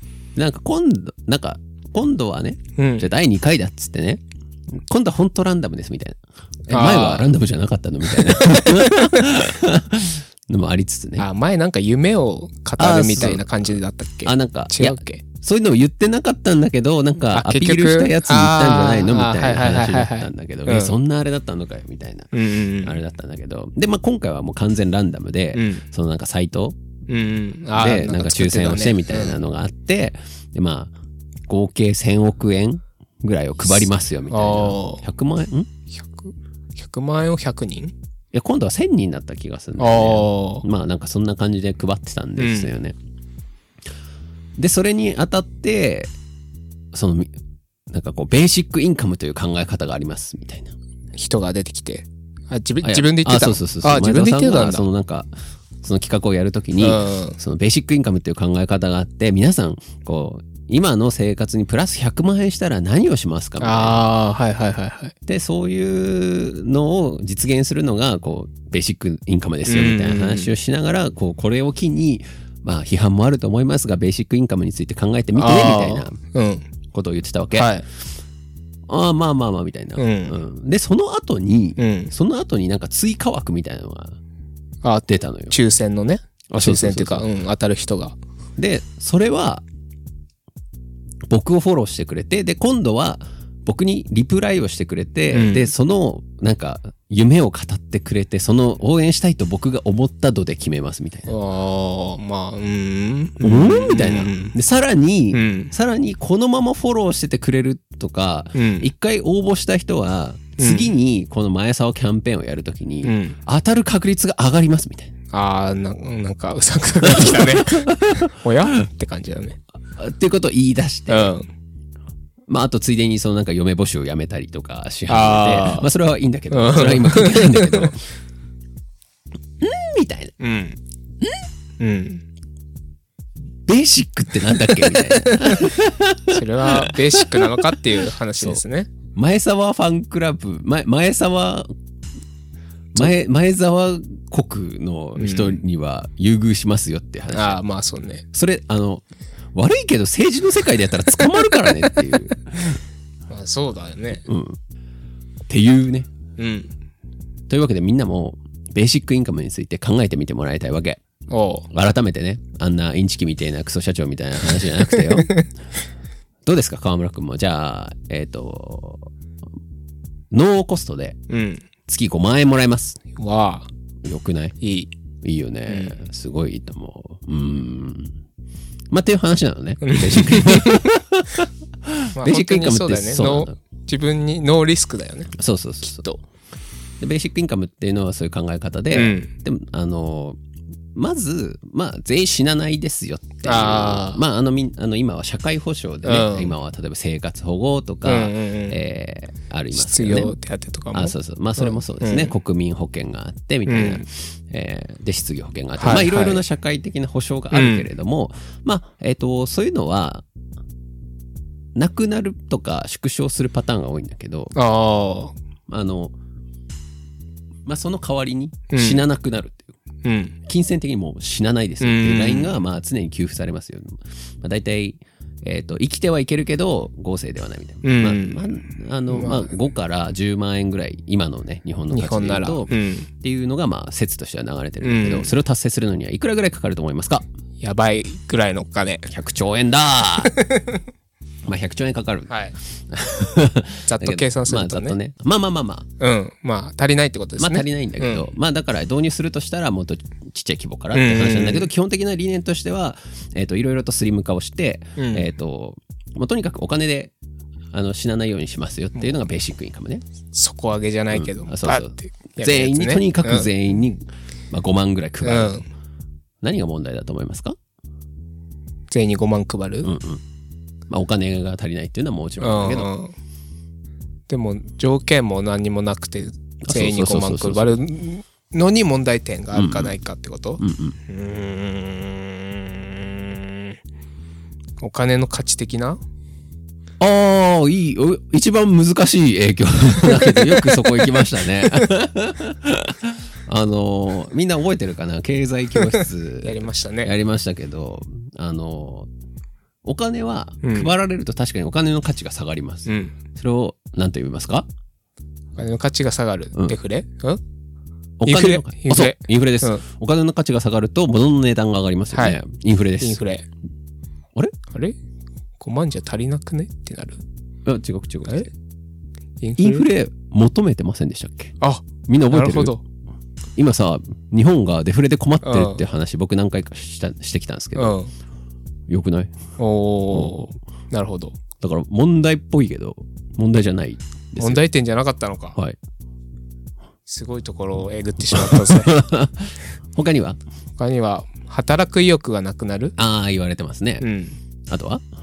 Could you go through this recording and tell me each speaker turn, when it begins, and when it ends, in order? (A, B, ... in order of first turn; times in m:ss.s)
0:00.3-0:04.2 A
0:02.8-0:03.1 B
0:04.7-0:11.2 A
0:06.7-0:07.3 B
0:08.1-0:09.3 B
0:11.2-0:15.2 B
0:12.8-0:26.8 A
0:17.3-0:21.0 B
0:22.3-0:23.0 B
0:25.5-0:25.8 B
0:27.1-0:29.4 B
0:27.8-0:30.9 A
0:31.5-0:35.7 A
0:33.7-0:35.0 B
0:35.9-0:37.9 B
0:38.3-0:43.0 A
0:39.8-0:40.6 B
0:42.4-0:42.7 B
0:44.6-0:46.1 A
0:46.9-0:47.3 A
0:47.9-0:50.7 A
0:51.2-0:54.8 B
0:52.8-0:55.3 A
0:55.8-1:04.0 A
0:56.8-0:57.4 B
1:03.6-1:05.1 B
1:05.2-1:16.2 A
1:09.7-1:10.5 B
1:15.3-1:16.7 B
1:16.9-1:17.8 A
1:17.5-1:17.8 B
1:18.9-1:24.2 A
1:20.0-1:20.4 B
1:21.8-1:22.1 B
1:24.8-1:28.2 B
1:25.1-1:25.6 A
1:26.5-1:27.3 A
1:28.6-1:29.6 A
1:31.3-1:41.3 A
1:35.3-1:35.7 B
1:41.3-1:44.6 B
1:43.4-1:55.1 A
1:45.3-1:45.7 B
1:48.6-1:48.9 B
1:50.6-1:50.9 B
1:53.0-1:53.4 B
1:55.3-1:59.6 B
1:57.0-1:58.3 A
1:59.9-2:01.3 A
2:01.1-2:01.5 B
2:02.5-2:08.0 A
2:05.1-2:05.9 B
2:06.5-2:07.9 B
2:09.6-2:10.3 A
2:10.4-2:10.8 B
2:11.8-2:12.2 B
2:13.6-2:17.8 A
2:14.7-2:15.8 B
2:16.3-2:18.9 B
2:18.4-2:21.7 A
2:22.9-2:27.6 A
2:25.2-2:25.6 B
2:27.3-2:28.2 B
2:28.3-2:32.8 A
2:33.3-2:34.2 B
2:34.3-2:34.6 A
2:35.5-2:36.1 A
2:36.4-2:36.7 B
2:37.5-2:41.0 A
2:41.3-2:41.7 B
2:41.7-2:45.4 A
2:44.9-2:45.4 B
2:46.4-2:49.1 A
2:50.3-2:51.2 A
2:51.3-2:51.6 B
2:51.9-2:53.0 A
2:53.1-2:53.7 B
2:54.0-2:54.6 A
2:54.6-2:54.9 B
2:55.2-2:58.2 A
2:55.7-2:56.0 B
2:58.9-3:03.5 A
2:59.8-3:00.9 B
3:02.1-3:05.3 B
3:05.3-3:06.1 A
3:05.8-3:06.2 B
3:07.0-3:10.4 A
3:08.9-3:09.3 B
3:10.9-3:20.4 A
3:13.4-3:14.2 B
3:16.0-3:16.5 B
3:18.0-3:18.8 B
3:19.7-3:22.3 B
3:20.9-3:30.2 A
3:23.7-3:24.0 B
3:25.8-3:26.4 B
3:27.5-3:27.9 B
3:31.8-3:34.5 A
3:34.6-3:35.3 B
3:35.7-3:36.1 A
3:37.6-3:39.8 A
3:38.7-3:39.0 B
3:40.0-3:40.4 B
3:40.4-3:57.3 A
3:41.8-3:42.5 B
3:47.8-3:48.4 B
3:49.1-3:49.5 B
3:51.9-3:53.1 B
3:54.8-3:55.3 B
3:57.6-3:59.1 B
3:59.1-4:00.4 A
4:00.2-4:00.8 B
4:01.4-4:05.9 A
4:02.3-4:02.6 B
4:03.9-4:05.0 B
4:06.0-4:08.3 B
4:07.4-4:17.1 A
4:10.9-4:11.7 B
4:15.0-4:15.3 B
4:17.7-4:20.0 A
4:20.3-4:23.5 B
4:21.1-4:25.6 A
4:25.2-4:25.7 B
4:26.4-4:27.6 A
4:28.9-4:29.9 B
4:29.8-4:30.2 A
4:30.9-4:32.9 A
4:32.4-4:33.1 B
4:34.3-4:43.8 B
4:36.6-4:37.7 A
4:39.5-4:39.9 A
4:40.6-4:41.0 A
4:44.8-4:46.0 B
4:47.0-4:59.1 A
4:50.0-4:50.8 B
4:51.6-4:51.9 B
4:55.9-4:57.1 B
4:59.8-5:04.6 A
5:00.6-5:00.9 B
5:02.9-5:03.2 B
5:05.6-5:07.4 B
5:08.2-5:13.2 A
5:08.3-5:09.8 B
5:12.1-5:12.4 B
5:13.0-5:13.4 B
5:14.7-5:15.0 B
5:15.6-5:17.2 B
5:17.6-5:18.5 A
5:19.4-5:19.9 B
5:19.6-5:21.6 A
5:21.6-5:22.8 B
5:22.1-5:22.8 A
5:23.6-5:28.0 A
5:25.4-5:25.8 B
5:27.8-5:28.1 B
5:28.9-5:29.3 A
5:29.6-5:31.4 B
5:31.6-5:34.6 A
5:34.4-5:35.6 B
5:37.1-5:39.0 B
5:38.3-5:40.4 A
5:40.8-5:42.9 B
5:43.0-5:44.1 A
5:44.0-5:44.4 B
5:44.7-5:45.0 A